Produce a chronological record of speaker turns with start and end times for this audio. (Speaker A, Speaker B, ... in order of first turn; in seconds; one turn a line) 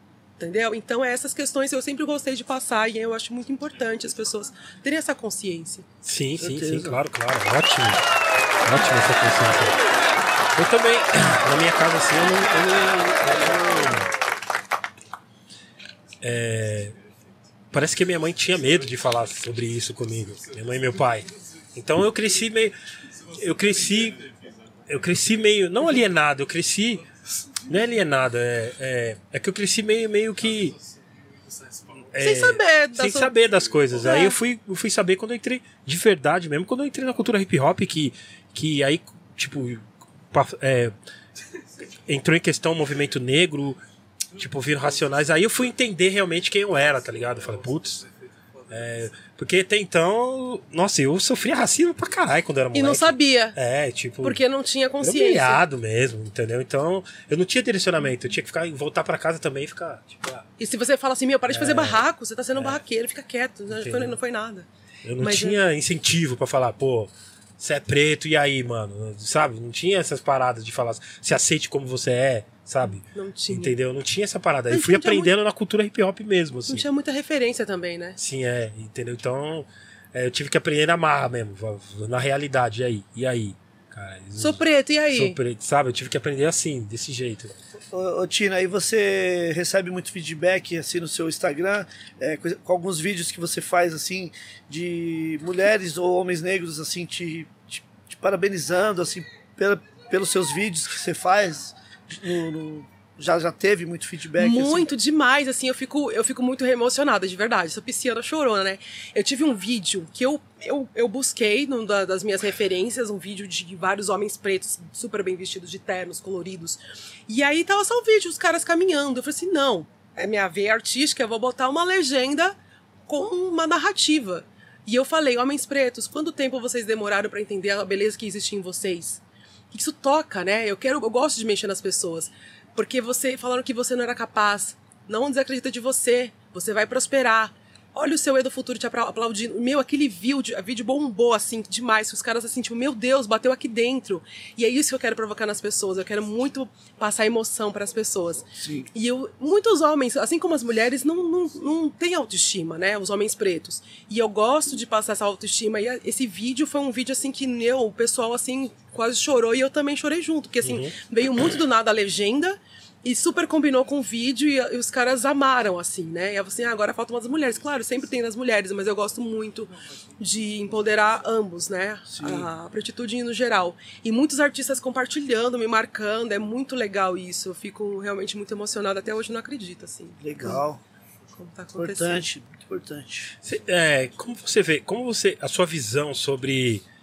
Speaker A: 0.4-5.9
Speaker B: 6.0-8.0
Speaker C: 6.4-7.0
Speaker B: 8.6-9.8
Speaker B: 10.6-14.1
Speaker B: 16.2-16.9
Speaker B: 17.7-22.8
Speaker B: 23.3-24.3
Speaker B: 24.9-27.1
Speaker B: 27.6-30.8
Speaker B: 32.1-40.9
Speaker A: 32.2-33.3
Speaker A: 34.0-34.4
Speaker B: 42.1-43.8
Speaker B: 44.4-48.1
Speaker B: 48.7-54.4
Speaker A: 52.7-53.6
Speaker A: 54.2-55.6
Speaker B: 55.0-60.5
Speaker A: 60.6-64.7
Speaker B: 61.5-62.0
Speaker B: 62.5-62.8
Speaker B: 63.7-64.2
Speaker B: 65.0-76.8
Speaker A: 65.2-65.6
Speaker A: 73.1-73.8
Speaker A: 74.7-75.3
Speaker A: 76.7-78.2
Speaker B: 78.2-87.5
Speaker A: 84.4-85.4
Speaker C: 87.9-104.9
Speaker A: 104.4-122.5
Speaker A: 123.1-129.2
Speaker A: 129.7-180.6
Speaker C: 148.6-148.9
Speaker B: 160.6-160.9
Speaker C: 172.1-172.5
Speaker C: 180.2-180.8
Speaker A: 181.3-182.2
Speaker C: 181.8-183.4
Speaker B: 183.4-186.8